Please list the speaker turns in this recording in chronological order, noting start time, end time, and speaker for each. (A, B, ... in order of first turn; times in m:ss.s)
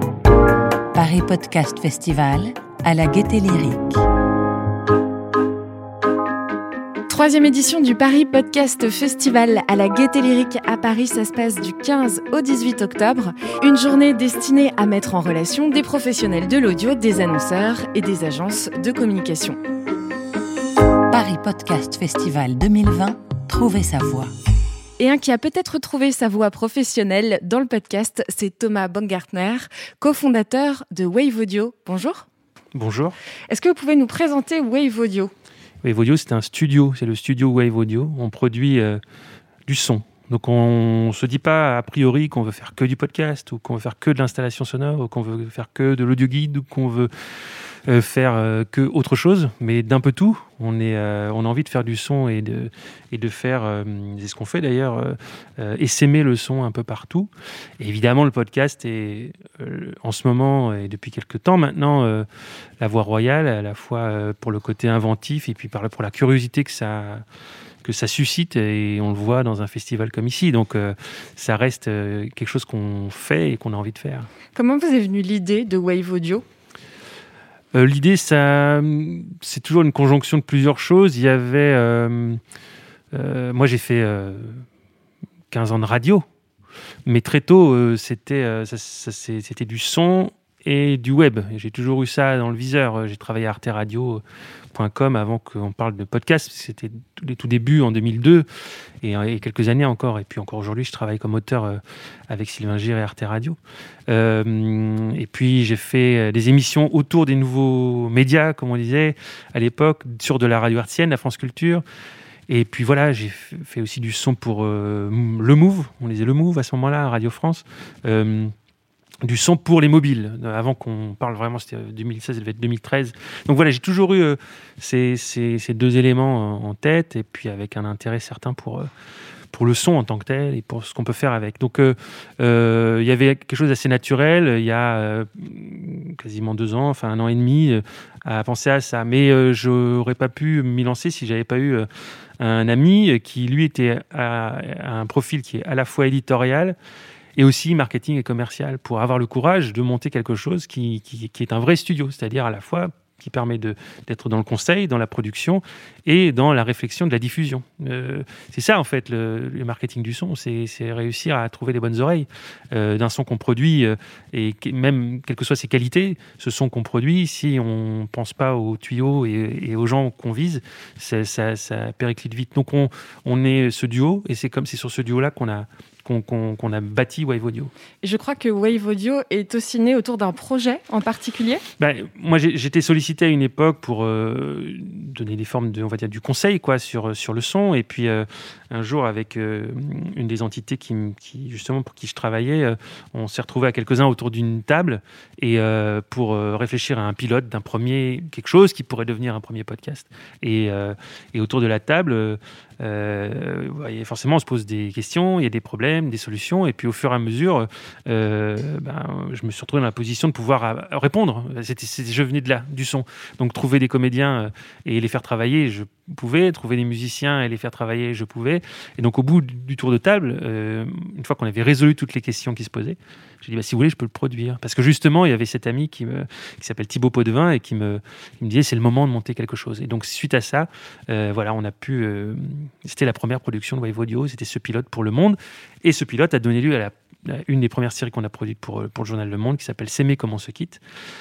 0:00.9-0:04.0 A
0:07.1-0:19.6 B
0:21.1-0:24.3 A
0:25.0-0:32.2 B
0:32.7-0:33.2 C
0:33.5-0:35.3 B
0:35.8-0:39.0 C
0:39.7-0:47.1 C
0:47.8-1:02.2 C
1:02.8-1:07.2 C
1:07.8-1:14.3 C
1:14.5-1:16.4 B
1:17.7-1:22.4 C
1:23.1-1:24.6 C
1:25.5-1:26.2 C
1:27.0-1:34.2 C
1:34.7-1:38.4 C
1:39.0-1:43.6 C
1:44.1-1:51.8 C
1:52.5-1:58.5 C
1:59.2-2:08.9 C
2:09.5-2:21.9 C
2:22.4-2:26.8 C
2:27.4-2:57.7 C
2:58.0-3:01.6 B
3:01.8-4:00.8 C